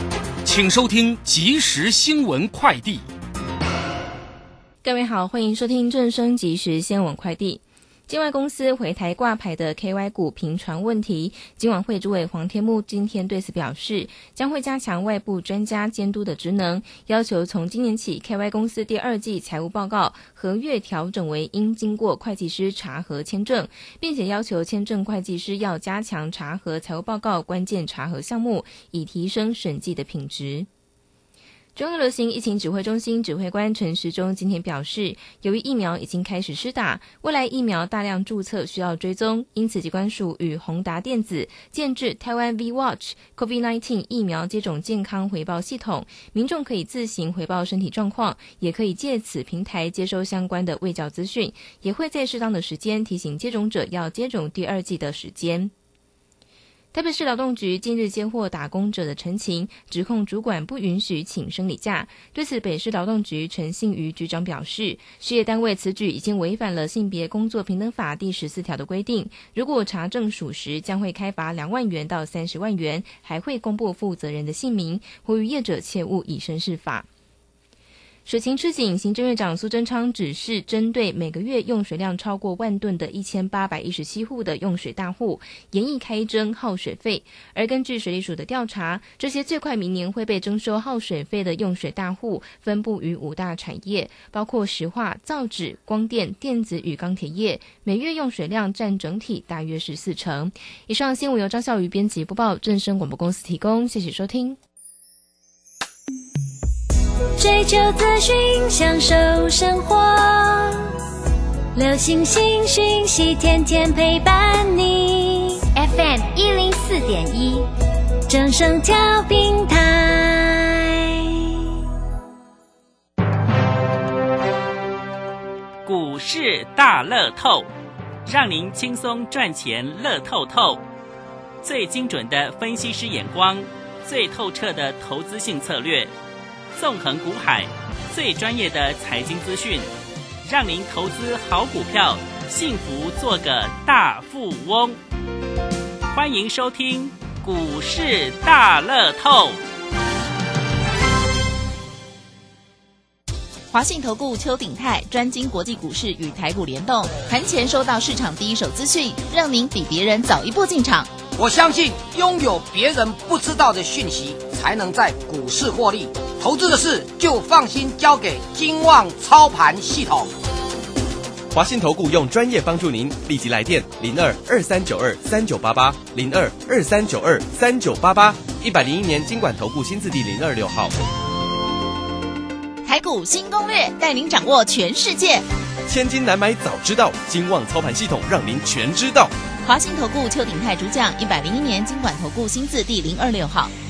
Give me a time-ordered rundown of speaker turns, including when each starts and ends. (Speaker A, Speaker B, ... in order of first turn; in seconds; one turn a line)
Speaker A: 0.5-3.0
Speaker B: 4.8-30.7
Speaker B: 31.8-55.7
Speaker B: 56.9-77.0
Speaker B: 78.2-104.6
Speaker C: 107.4-111.0
Speaker C: 111.7-117.7
Speaker C: 118.3-121.8
Speaker D: 125.8-127.7
Speaker D: 128.2-130.8
Speaker D: 131.6-136.1
Speaker D: 136.7-139.9
Speaker D: 140.4-145.0
Speaker D: 146.1-149.6
Speaker E: 153.7-161.1
Speaker F: 161.3-170.3
Speaker G: 171.5-180.9
Speaker E: 182.8-185.4
Speaker G: 185.9-189.3
Speaker E: 189.6-193.7